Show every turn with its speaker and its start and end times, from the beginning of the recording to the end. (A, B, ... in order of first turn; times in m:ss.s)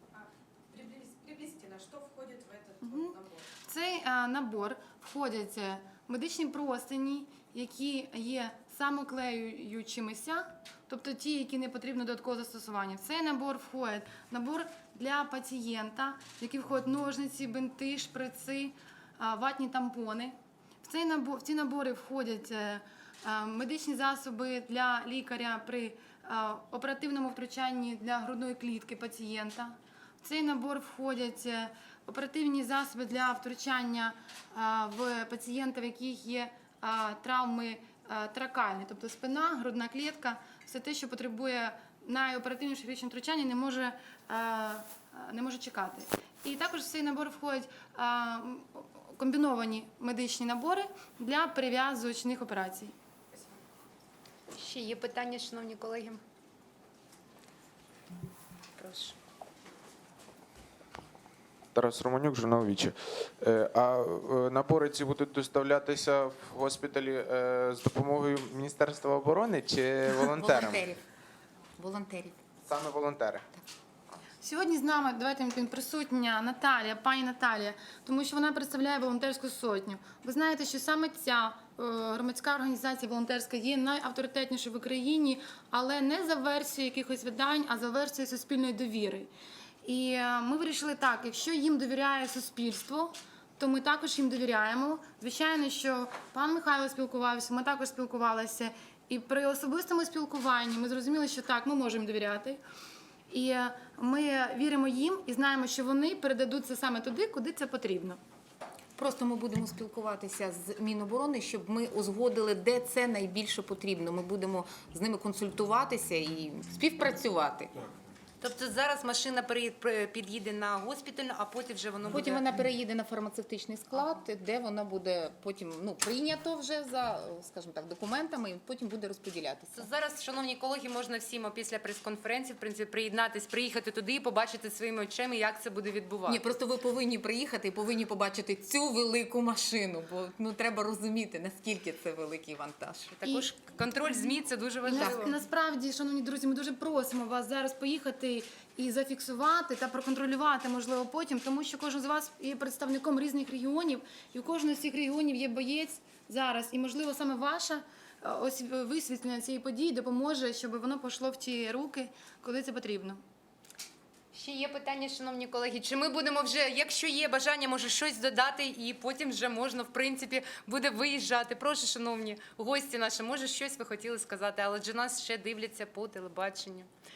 0:00.7-0:03.4 A
0:02.8-0:52.9 B
0:54.5-0:56.2 C
0:58.8-0:59.2 C
1:01.8-1:10.8 D
1:10.0-1:11.0 E
1:11.8-1:12.4 E
1:12.7-1:13.4 D
1:14.4-1:29.3 B
1:29.8-1:42.6 B
1:43.3-1:48.2 B
1:49.0-1:57.7 E
1:58.4-2:02.4 C
2:02.1-2:09.9 E
2:09.8-2:16.4 C
2:16.3-2:23.2 E
2:23.2-2:25.3 C
2:24.0-2:24.3 B
2:24.8-2:43.2 B
2:24.9-2:25.2 E
2:44.3-2:56.9 C